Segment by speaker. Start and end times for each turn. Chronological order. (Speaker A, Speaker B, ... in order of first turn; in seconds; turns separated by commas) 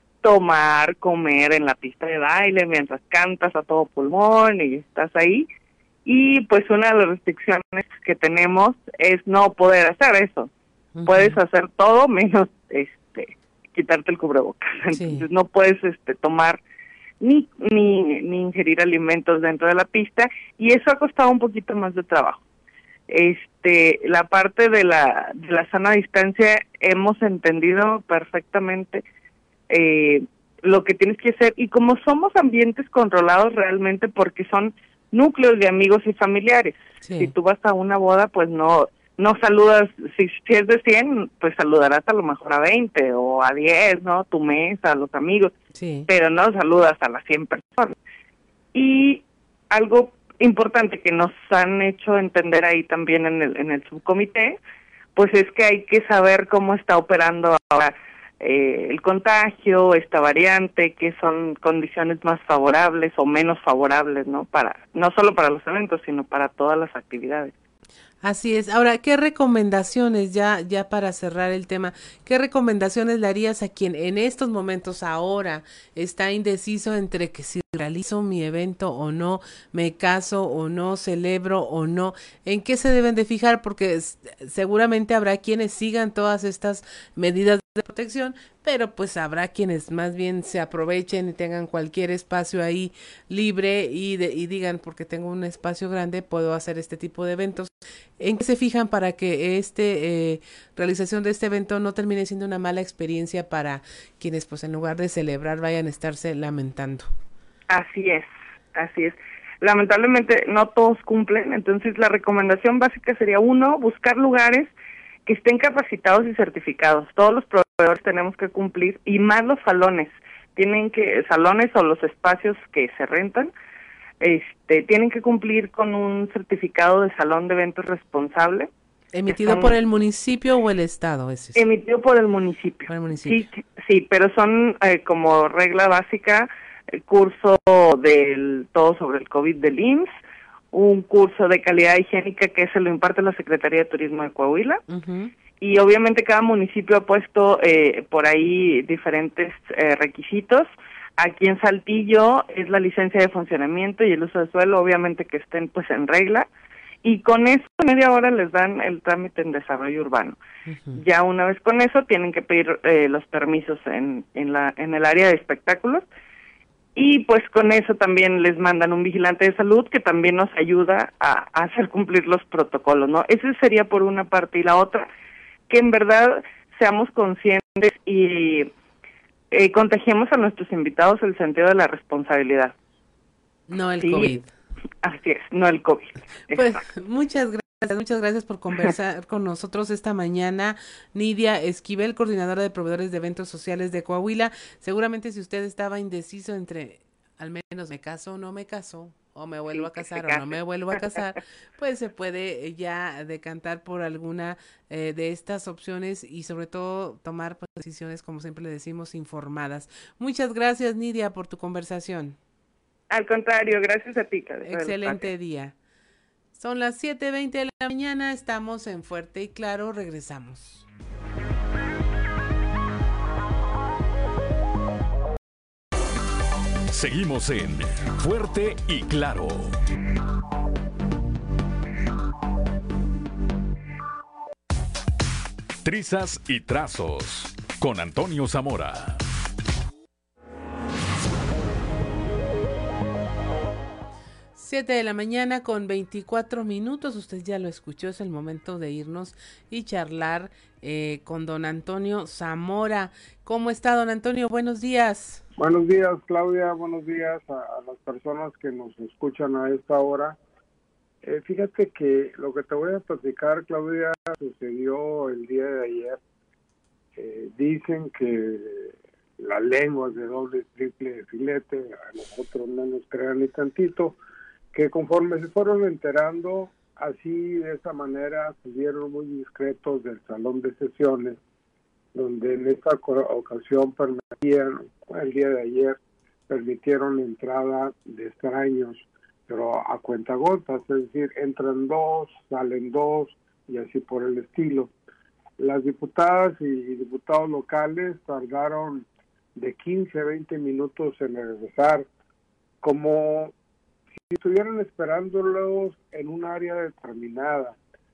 Speaker A: 0.2-5.5, Speaker A: 6.0-10.5, Speaker B: 10.9-11.4, Speaker A: 11.1-16.6, Speaker B: 14.9-15.3, Speaker A: 17.2-22.4, Speaker A: 23.1-29.0, Speaker A: 29.7-45.5, Speaker B: 37.0-37.3, Speaker B: 45.7-46.1, Speaker A: 46.1-47.9, Speaker A: 48.7-54.6, Speaker A: 55.1-67.5, Speaker B: 68.2-107.1, Speaker A: 107.7-114.7, Speaker A: 115.2-123.5, Speaker A: 124.2-128.7, Speaker B: 129.1-131.6, Speaker A: 129.3-129.7, Speaker A: 131.5-136.5, Speaker B: 132.9-133.4, Speaker A: 137.1-140.1, Speaker A: 140.7-144.8, Speaker B: 144.9-145.3, Speaker A: 145.6-150.7, Speaker A: 151.2-156.5, Speaker A: 157.0-160.4, Speaker B: 160.7-161.0, Speaker A: 160.9-166.0, Speaker A: 166.9-175.1, Speaker A: 175.7-178.7, Speaker A: 179.5-182.7, Speaker B: 183.7-184.5, Speaker A: 184.0-184.3, Speaker A: 185.0-186.8, Speaker B: 186.5-212.3, Speaker A: 199.7-200.5, Speaker A: 213.1-215.3, Speaker B: 214.6-215.7, Speaker B: 216.6-220.8, Speaker C: 226.9-229.7, Speaker C: 235.8-239.2, Speaker B: 244.6-255.4, Speaker D: 255.6-260.4, Speaker D: 261.2-266.2, Speaker D: 267.2-274.2, Speaker D: 274.7-281.4, Speaker D: 282.1-286.0, Speaker D: 286.5-294.9, Speaker D: 295.6-302.1, Speaker D: 302.8-303.5, Speaker D: 304.3-307.8